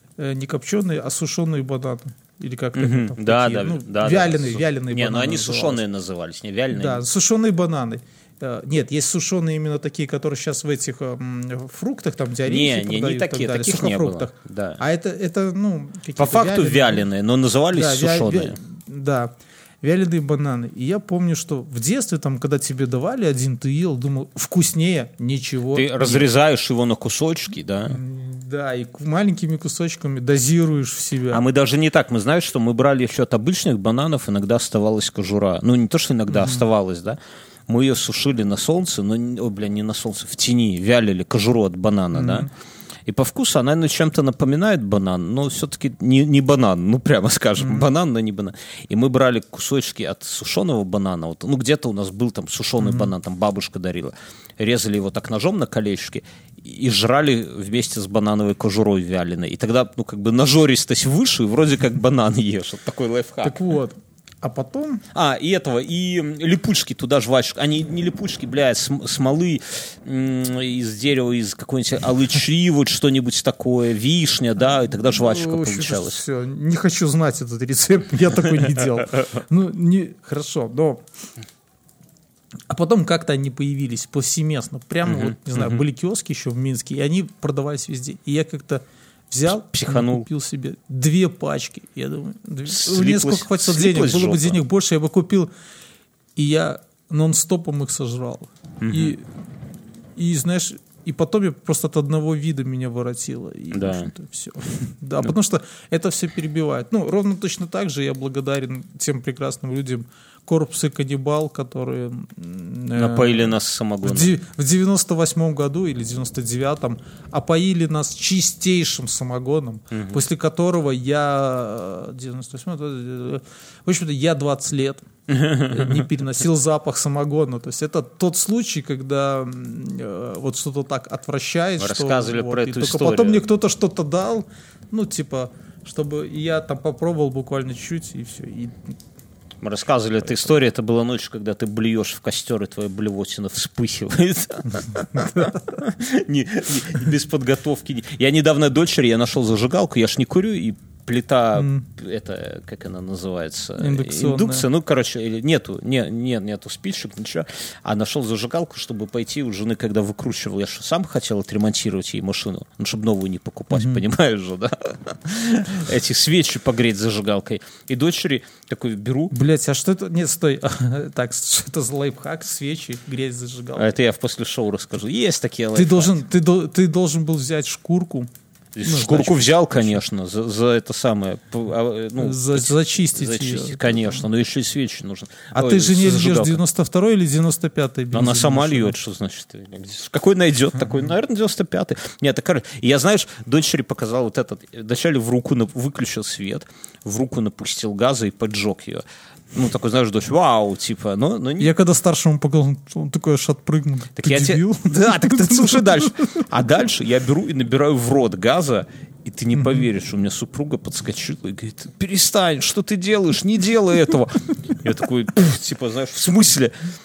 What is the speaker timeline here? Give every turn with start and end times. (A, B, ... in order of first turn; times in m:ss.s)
0:00.2-0:05.8 A
0:02.7-0:07.0 B
0:06.7-0:17.1 A
0:12.4-0:14.8 B
0:16.2-0:18.6 B
0:17.7-0:26.3 A
0:25.7-0:28.0 B
0:27.9-0:31.4 A
0:31.3-0:42.5 B
0:36.3-0:36.6 A
0:42.1-0:42.5 A
0:43.1-1:03.6 B
0:47.6-0:47.9 A
0:52.8-0:53.1 A
1:03.4-1:05.0 A
1:05.1-1:16.2 B
1:15.0-1:21.0 A
1:22.7-1:35.5 A
1:25.1-1:25.8 B
1:29.5-1:30.2 B
1:32.6-1:34.6 B
1:36.4-1:39.2 A
1:38.8-1:39.1 B
1:40.2-2:05.1 A
1:43.7-1:44.1 B
1:52.9-1:54.3 B
1:59.9-2:00.2 B
2:05.3-2:06.0 B
2:05.7-2:18.8 A
2:11.8-2:13.4 B
2:19.6-2:49.3 B
2:25.1-2:25.5 A
2:31.5-2:31.8 A
2:33.8-2:34.7 A
2:43.7-2:44.0 A
2:49.3-2:53.9 A
2:53.7-2:56.2 B
2:55.7-2:58.3 A
2:58.8-3:06.6 B
2:58.8-2:59.7 A
3:02.2-3:04.2 A
3:05.5-3:09.0 A
3:08.1-3:21.7 B
3:21.6-3:26.4 A
3:24.2-3:36.7 B
3:29.5-3:29.9 A